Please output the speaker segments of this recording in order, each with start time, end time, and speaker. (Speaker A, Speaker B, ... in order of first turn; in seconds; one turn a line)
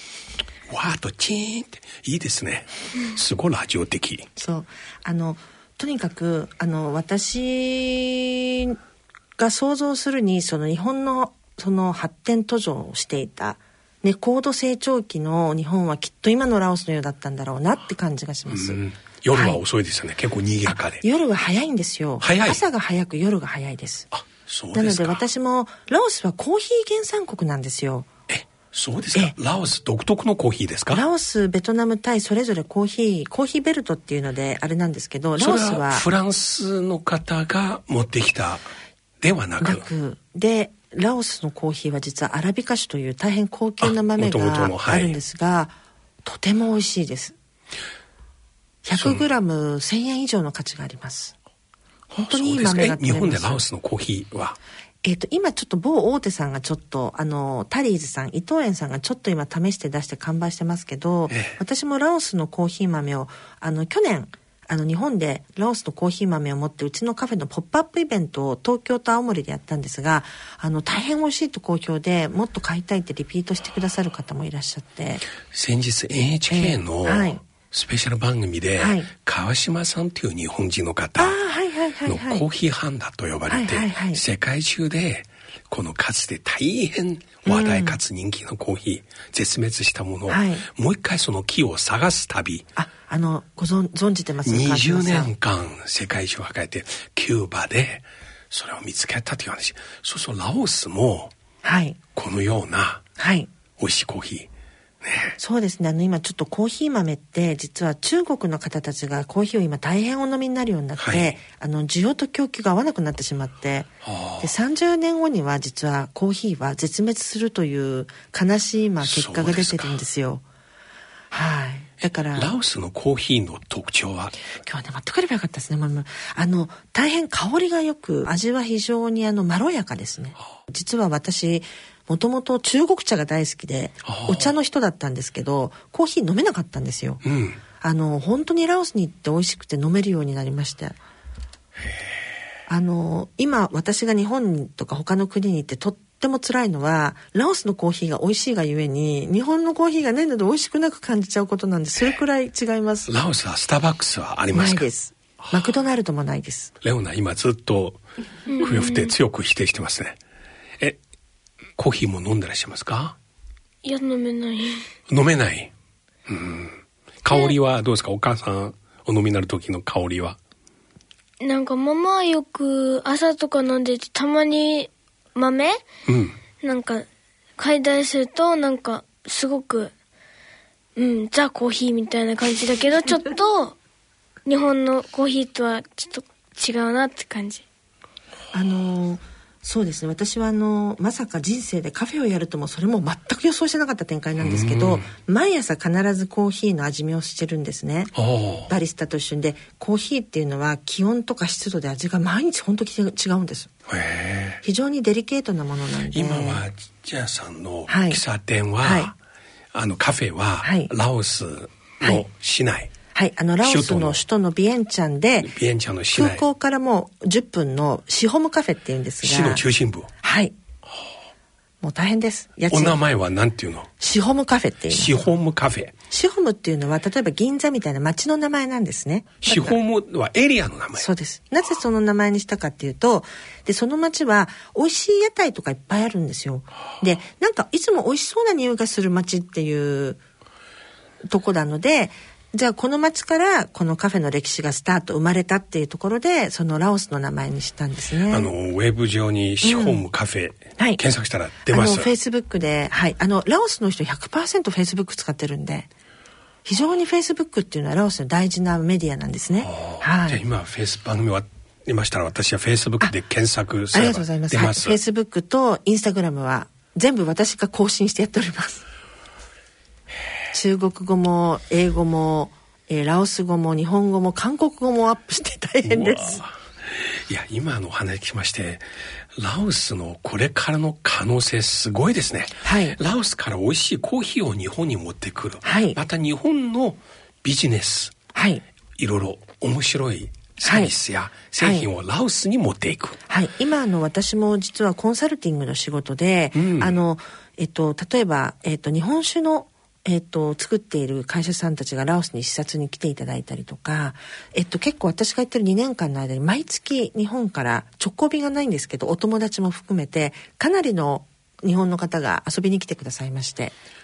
Speaker A: 0.7-4.3
Speaker B: 4.4-8.8
Speaker B: 9.4-18.8
Speaker A: 18.5-21.0
Speaker B: 19.3-19.6
Speaker B: 20.7-24.1
Speaker A: 22.2-22.6
Speaker A: 24.1-25.2
Speaker B: 24.7-28.1
Speaker A: 28.3-31.1
Speaker B: 30.9-36.0
Speaker A: 35.4-38.7
Speaker A: 39.2-39.9
Speaker B: 39.6-47.4
Speaker A: 43.8-45.2
Speaker B: 48.8-51.3
Speaker A: 49.0-49.2
Speaker A: 52.1-54.6
Speaker B: 52.2-53.6
Speaker B: 55.0-75.3
Speaker A: 61.3-61.6
Speaker A: 75.5-81.4
Speaker B: 76.5-77.4
Speaker B: 78.8-79.1
Speaker B: 81.2-82.5
Speaker A: 82.1-92.7
Speaker B: 83.5-84.2
Speaker B: 87.5-88.0
Speaker B: 90.3-90.6
Speaker B: 92.8-95.3
Speaker A: 94.4-101.3
Speaker B: 101.6-102.0
Speaker A: 102.2-103.0
Speaker B: 103.2-103.5
Speaker A: 103.8-104.5
Speaker A: 105.0-105.4
Speaker B: 105.4-120.4
Speaker A: 111.0-111.4
Speaker A: 114.0-114.5
Speaker A: 119.0-120.0
Speaker B: 121.3-122.5
Speaker A: 122.3-124.5
Speaker B: 124.6-137.2
Speaker A: 134.1-134.5
Speaker A: 137.2-137.6
Speaker B: 137.8-141.0
Speaker B: 142.7-153.1
Speaker A: 153.1-154.9
Speaker B: 154.5-156.7
Speaker A: 156.8-158.0
Speaker C: 158.5-159.1
Speaker A: 158.6-160.2
Speaker A: 161.8-163.2
Speaker C: 163.8-164.8
Speaker A: 165.1-165.7
Speaker A: 166.3-170.4
Speaker C: 171.4-175.8
Speaker A: 176.1-176.4
Speaker C: 176.6-177.1
Speaker C: 177.6-179.9
Speaker C: 181.0-183.8
Speaker C: 184.4-187.7
Speaker B: 188.5-198.1
Speaker A: 194.4-195.1
Speaker A: 198.2-198.7
Speaker B: 198.7-203.7
Speaker A: 203.9-204.6
Speaker B: 204.6-206.6
Speaker A: 206.1-209.2
Speaker B: 207.9-208.2
Speaker B: 208.8-209.1
Speaker A: 209.7-212.9
Speaker B: 210.6-210.9
Speaker B: 213.1-215.5
Speaker A: 213.6-214.2
Speaker A: 215.4-216.4
Speaker B: 216.1-219.6
Speaker A: 219.2-220.1
Speaker B: 220.2-220.6
Speaker B: 221.8-223.0
Speaker A: 222.7-223.9
Speaker B: 224.0-225.3
Speaker A: 224.9-225.9
Speaker B: 226.1-229.8
Speaker A: 229.4-231.1
Speaker B: 231.0-240.2
Speaker B: 241.3-248.5
Speaker A: 248.3-252.1
Speaker B: 249.6-250.0
Speaker B: 251.7-255.9
Speaker B: 256.7-260.4
Speaker A: 259.6-265.0
Speaker B: 263.9-268.8
Speaker B: 270.5-276.4
Speaker A: 275.8-288.1
Speaker B: 282.6-283.0
Speaker B: 285.6-286.0
Speaker B: 288.4-288.6
Speaker A: 289.0-293.2
Speaker B: 290.6-290.9
Speaker B: 291.6-291.9
Speaker B: 293.3-313.7
Speaker A: 296.6-297.0